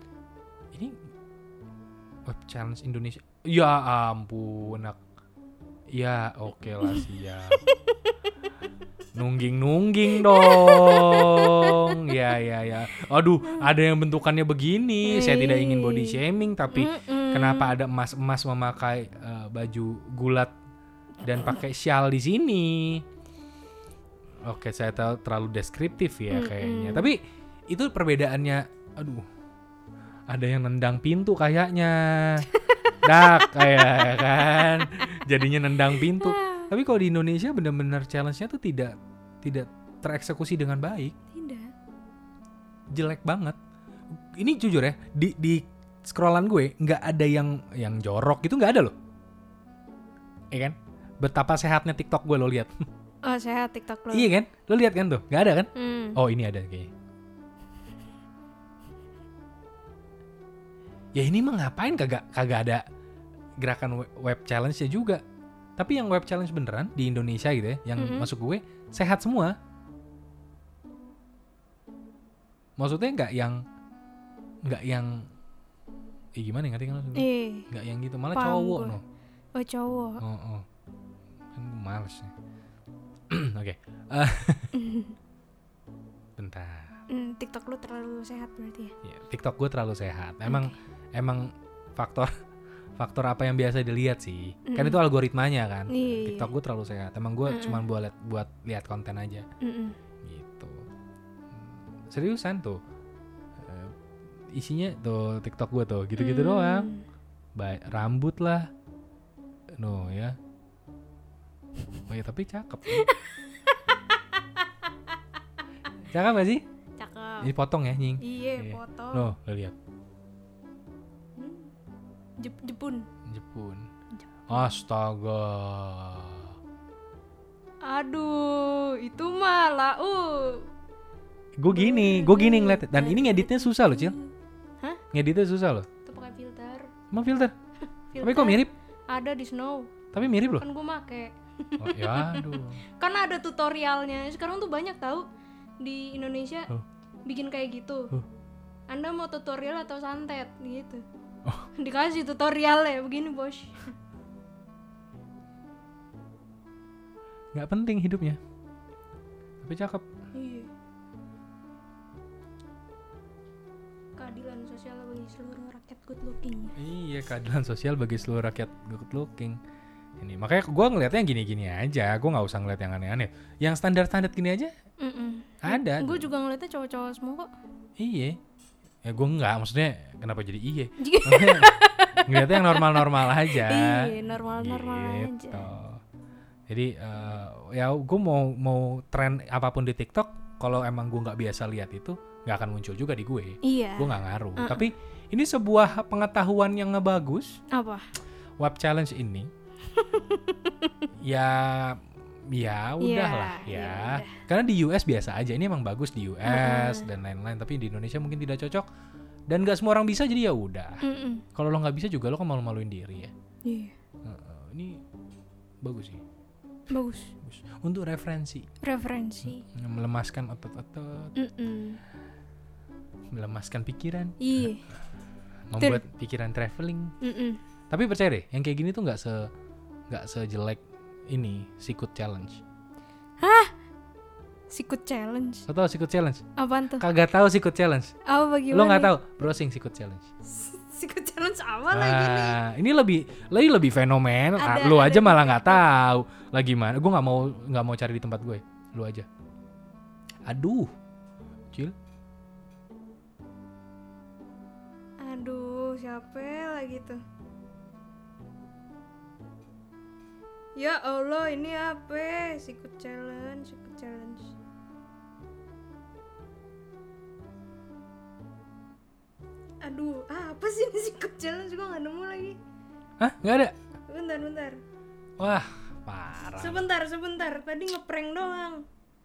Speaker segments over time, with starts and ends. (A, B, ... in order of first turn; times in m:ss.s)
0:00.7-0:01.0 A
0:02.3-0:05.0 A
0:05.9-0:07.6 A
0:07.6-0:08.1 B
0:09.2-0:20.5 A
0:10.2-0:12.2 B
0:15.0-0:17.8 B
0:21.2-0:23.0 A
0:24.4-0:29.3 A
0:26.3-0:27.1 B
0:30.3-0:32.5 A
0:32.6-0:35.1 B
0:33.0-0:41.2 A
0:36.2-0:36.7 B
0:41.3-0:41.7 B
0:42.9-0:43.6 A
0:44.3-0:48.9 A
0:50.5-0:52.8 A
0:53.2-0:54.3 B
0:54.1-0:56.9 A
0:55.8-0:56.2 B
1:01.2-1:02.8 A
1:03.6-1:05.2 A
1:05.8-1:09.6 A
1:08.0-1:08.3 B
1:12.8-1:13.6 A
1:14.6-1:15.3 A
1:16.4-1:19.0 A
1:17.2-1:17.7 B
1:18.3-1:19.0 B
1:19.6-1:20.2 B
1:20.2-1:20.6 A
1:21.6-1:22.3 A
1:23.3-1:24.7 A
1:24.7-1:25.2 B
1:26.4-1:27.0 A
1:27.1-1:28.9 B
1:29.0-1:32.4 A
1:30.5-1:30.7 B
1:33.0-1:39.5 A
1:34.7-1:35.0 B
1:35.9-1:36.5 B
1:37.5-1:37.9 B
1:39.6-1:40.0 B
1:40.2-1:40.9 A
1:41.5-1:42.8 A
1:43.6-1:43.9 A
1:44.5-1:46.9 A
1:46.2-1:47.0 B
1:47.6-1:48.7 A
1:49.7-1:50.4 A
1:52.1-1:53.1 A
1:52.9-1:55.2 B
1:56.1-1:56.6 A
1:57.0-1:57.5 B
1:57.4-1:59.8 A
1:58.2-1:59.3 B
2:01.4-2:01.7 B
2:02.4-2:03.1 B
2:03.3-2:03.9 A
2:04.2-2:04.8 B
2:04.5-2:06.5 A
2:07.8-2:10.7 B
2:11.6-2:14.2 A
2:11.7-2:15.0 B
2:15.1-2:15.9 A
2:16.0-2:16.9 B
2:17.1-2:17.5 A
2:18.1-2:19.9 B
2:18.2-2:18.7 A
2:20.1-2:20.7 A
2:20.6-2:25.3 B
2:21.8-2:22.8 A
2:25.8-2:26.7 B
2:27.3-2:28.1 B
2:28.9-2:31.0 B
2:31.8-2:33.9 B
2:37.5-2:38.4 A
2:39.6-2:40.1 A
2:40.3-2:40.7 B
2:44.2-2:46.8 B
2:46.8-2:49.6 A
2:50.2-2:54.7 A
2:55.0-2:57.5 B
2:55.6-2:56.3 A
2:58.0-2:58.4 A
2:59.0-3:06.0 A
3:01.0-3:05.7 B
3:06.7-3:17.6 A
3:13.6-3:14.9 B
3:17.7-3:18.1 B
3:18.6-3:19.5 A
3:19.9-3:21.1 B
3:21.2-3:28.9 A
3:23.0-3:24.4 B
3:26.4-3:27.1 B
3:29.5-3:31.0 A
3:31.0-3:31.4 B
3:31.5-3:33.3 A
3:33.6-3:33.9 B
3:34.2-3:35.0 A
3:35.8-3:36.2 A
3:36.9-3:37.3 B
3:37.4-3:38.7 A
3:38.8-3:39.6 B
3:39.4-3:41.4 A
3:41.4-3:42.0 B
3:43.3-3:44.5 A
3:44.4-3:44.8 B
3:45.7-3:47.1 A
3:47.2-3:47.6 B
3:47.9-3:49.5 A
3:50.1-3:52.6 A
3:53.4-3:53.7 B
3:54.7-3:55.7 B
3:55.7-3:56.4 A
3:56.6-3:57.0 B
3:57.0-3:58.1 A
3:58.2-3:59.1 B
3:58.7-4:00.3 A
4:00.5-4:02.6 B
4:01.9-4:09.3 A
4:04.6-4:05.8 B
4:10.5-4:10.9 A
4:15.2-4:17.2 B
4:20.8-4:24.6 B
4:29.8-4:32.6 B
4:33.2-4:33.8 A
4:34.1-4:34.8 B
4:35.4-4:36.8 A
4:36.6-4:38.9 B